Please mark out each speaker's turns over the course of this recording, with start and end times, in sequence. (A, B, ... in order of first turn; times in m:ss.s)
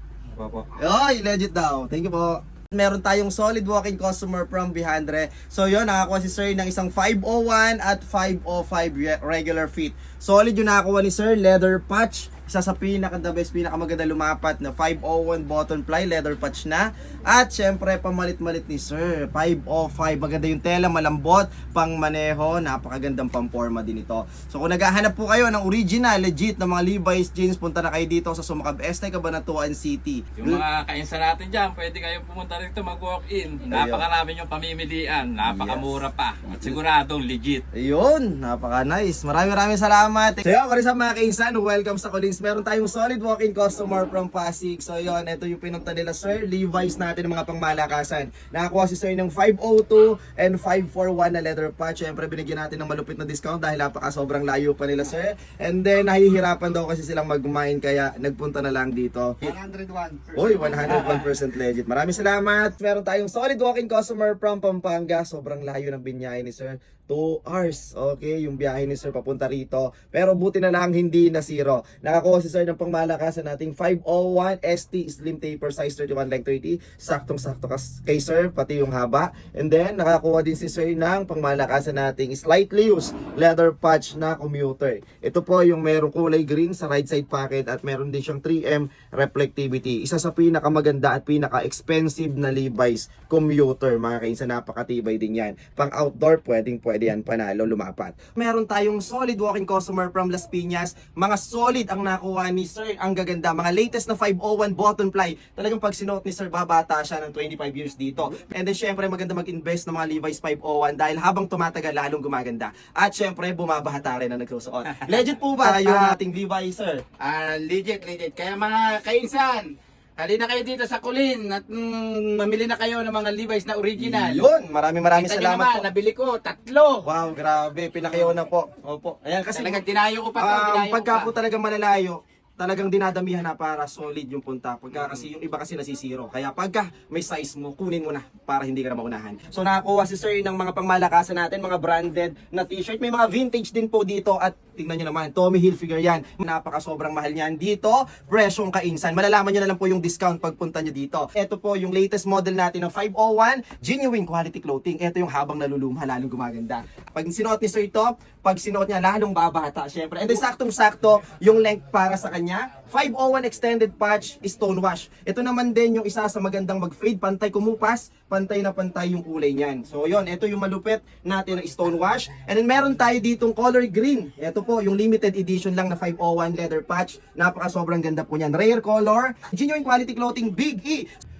0:00.8-0:30.6 A
0:30.4-0:37.6 B
0:33.7-0:34.0 A
0:35.4-0:36.0 A
0:37.7-0:59.5 A
1:00.3-1:57.0 A
1:55.0-1:56.1 C
1:57.2-2:04.4 C
2:04.0-2:05.9 A
2:05.1-2:07.0 C
2:07.0-2:09.8 A
2:09.5-2:11.3 C
2:10.4-3:01.1 A